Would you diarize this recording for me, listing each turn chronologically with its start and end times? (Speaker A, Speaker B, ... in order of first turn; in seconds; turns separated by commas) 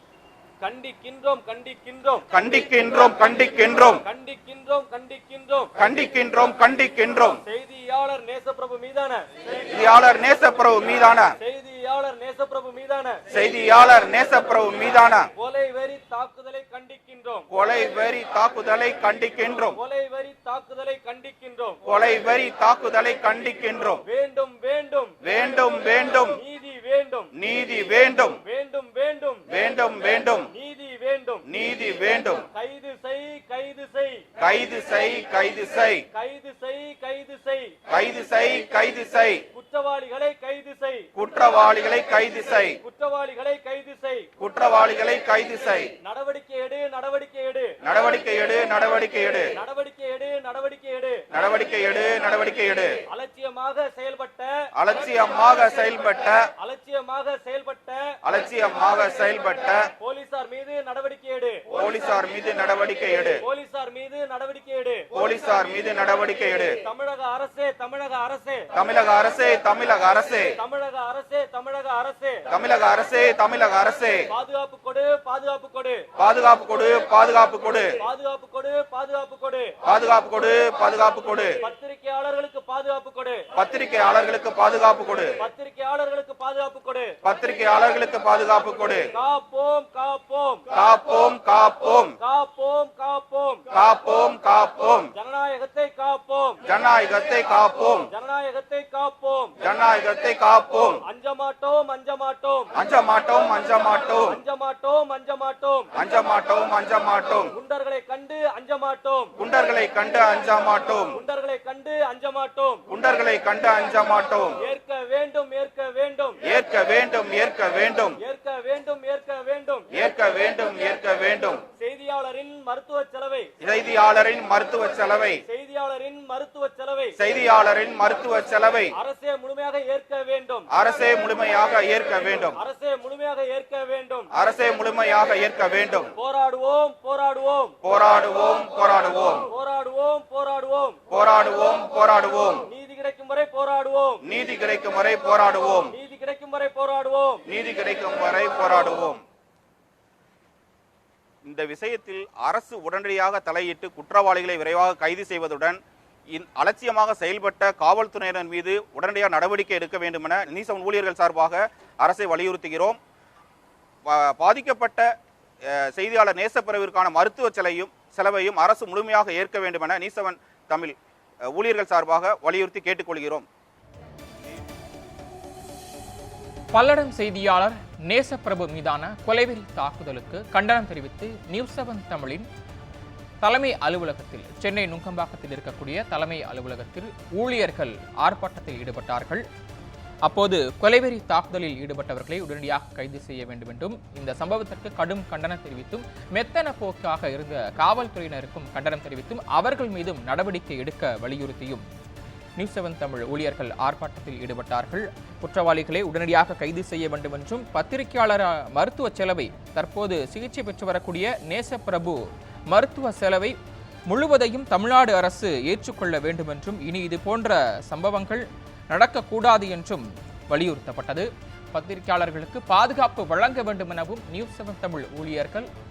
Speaker A: 0.6-2.2, Speaker B: 2.3-4.0, Speaker A: 4.0-5.7, Speaker B: 5.8-7.4, Speaker A: 7.4-9.3, Speaker B: 9.7-11.3, Speaker A: 11.4-13.2, Speaker B: 13.3-15.3, Speaker A: 15.3-17.5, Speaker B: 17.5-19.8, Speaker A: 19.7-21.8, Speaker B: 21.8-24.0, Speaker A: 24.0-25.2, Speaker B: 25.2-26.4, Speaker A: 26.3-27.3, Speaker B: 27.3-28.4, Speaker A: 28.4-29.5, Speaker B: 29.5-30.5, Speaker A: 30.5-31.4, Speaker B: 31.4-32.5, Speaker A: 32.5-34.2, Speaker B: 34.4-36.0, Speaker A: 36.1-37.8, Speaker B: 37.9-39.4, Speaker A: 39.5-41.1, Speaker B: 41.1-42.8, Speaker A: 42.8-44.3, Speaker B: 44.4-45.9, Speaker A: 46.0-47.8, Speaker B: 47.8-49.5, Speaker A: 49.5-51.2, Speaker B: 51.3-53.0, Speaker A: 53.1-54.7, Speaker B: 54.7-56.5, Speaker A: 56.6-58.1, Speaker B: 58.2-59.9, Speaker A: 60.0-61.7, Speaker B: 61.7-63.4, Speaker A: 63.4-65.1, Speaker B: 65.1-66.8, Speaker A: 66.8-68.7, Speaker B: 68.7-70.5, Speaker A: 70.5-72.5, Speaker B: 72.5-74.3, Speaker A: 74.3-76.1, Speaker B: 76.2-78.0, Speaker A: 78.0-79.8, Speaker B: 79.8-81.6, Speaker A: 81.6-83.5, Speaker B: 83.5-85.4, Speaker A: 85.4-87.2, Speaker B: 87.2-89.1, Speaker A: 89.1-90.7, Speaker B: 90.7-92.2, Speaker A: 92.2-93.7, Speaker B: 93.7-95.1, Speaker A: 95.1-96.6, Speaker B: 96.6-98.1, Speaker A: 98.1-99.5, Speaker B: 99.6-101.0, Speaker A: 101.0-102.7, Speaker B: 102.7-104.4, Speaker A: 104.3-105.9, Speaker B: 105.9-107.5, Speaker A: 107.5-109.3, Speaker B: 109.4-111.2, Speaker A: 111.1-112.9, Speaker B: 112.9-114.6, Speaker A: 114.6-116.4, Speaker B: 116.4-118.2, Speaker A: 118.2-119.9, Speaker B: 119.9-121.6, Speaker A: 121.7-123.5, Speaker B: 123.6-125.4, Speaker A: 125.5-127.2, Speaker B: 127.2-128.9, Speaker A: 128.9-130.7, Speaker B: 130.7-132.6, Speaker A: 132.6-134.3, Speaker B: 134.3-136.1, Speaker A: 136.1-137.8, Speaker B: 137.8-139.5, Speaker A: 139.4-141.0, Speaker B: 141.1-142.6, Speaker A: 142.7-144.2, Speaker B: 144.2-145.9, Speaker A: 145.9-147.4, Speaker B: 147.4-149.2, Speaker B: 151.4-155.8, Speaker B: 156.3-163.0, Speaker B: 164.1-165.1, Speaker B: 165.7-170.9, Speaker B: 171.5-173.4, Speaker C: 176.7-182.5, Speaker C: 183.4-189.4, Speaker C: 190.2-201.8, Speaker C: 202.6-213.6, Speaker C: 214.1-225.7